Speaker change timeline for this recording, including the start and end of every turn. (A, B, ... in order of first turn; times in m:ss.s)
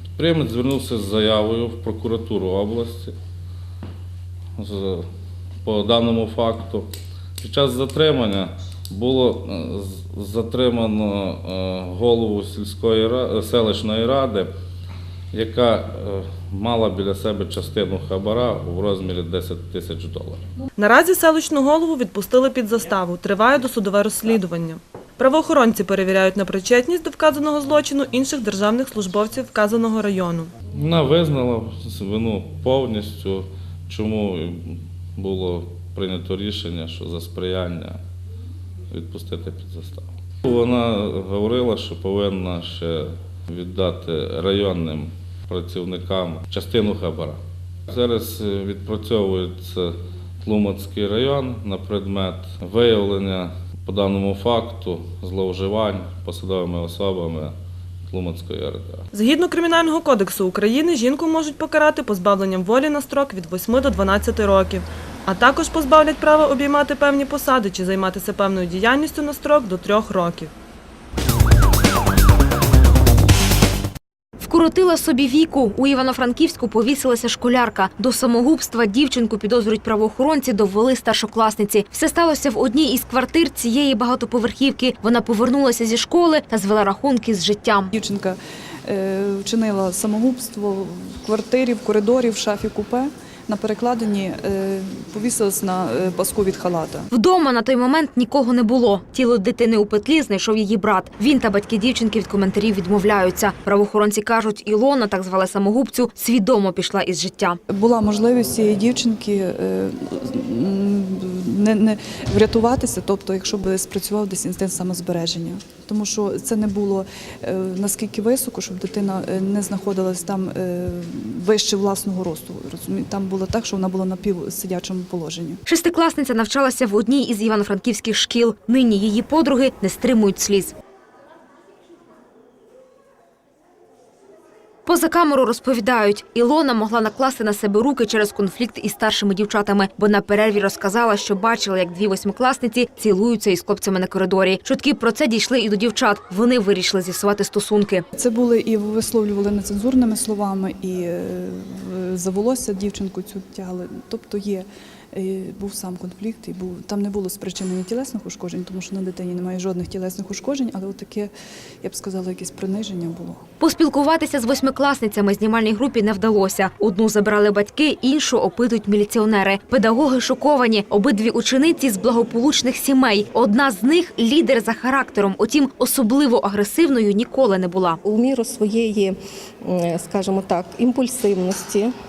0:00.2-0:03.1 A
0:04.6-0:05.1 A
0:05.6-0:06.9 A
0:07.4-0:14.5 A
0:15.3-0:20.4 A
0:20.8-0:30.5 B
0:30.7-0:38.0 A
0:38.9-0:47.4 A
0:47.9-0:57.6 A
0:58.1-0:59.0 A
0:59.1-1:10.5 B
1:14.4-1:27.9 C
1:27.9-1:37.1 D
1:37.1-1:47.6 C
1:47.7-2:05.6 D
2:05.7-2:10.7 C
2:14.9-2:28.0 C
2:28.2-2:41.3 D
2:41.8-2:43.4 D
2:43.6-2:58.0 C
2:58.0-2:59.2 E
2:59.7-3:01.9 E